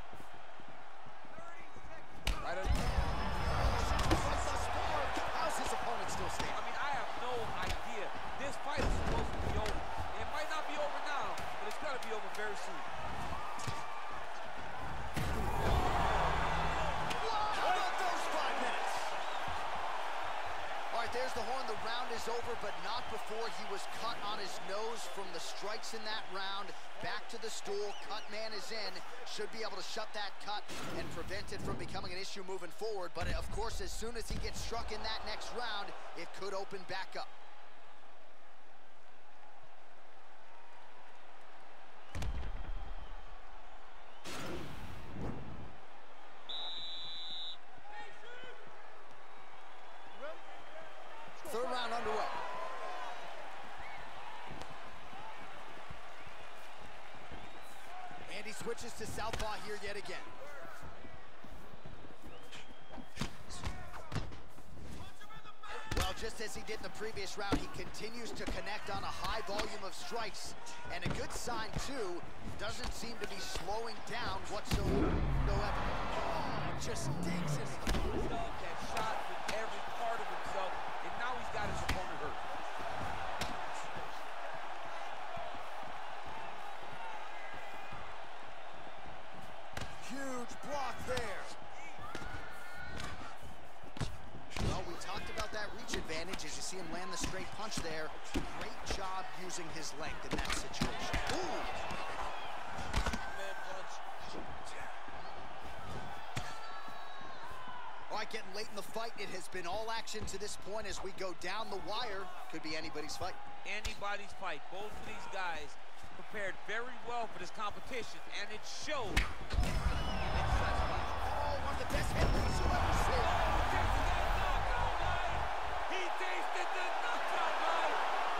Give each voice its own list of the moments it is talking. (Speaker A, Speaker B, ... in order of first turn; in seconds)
Speaker A: 2.4-6.6, 17.1-19.1, 20.9-37.3, 51.4-52.4, 58.3-60.3, 65.9-78.1, 90.0-91.5, 94.6-101.7, 108.1-113.4, 121.2-123.7
Speaker B: 6.5-12.9, 78.1-82.4, 103.2-104.0, 113.6-119.2, 120.2-121.2, 123.0-128.0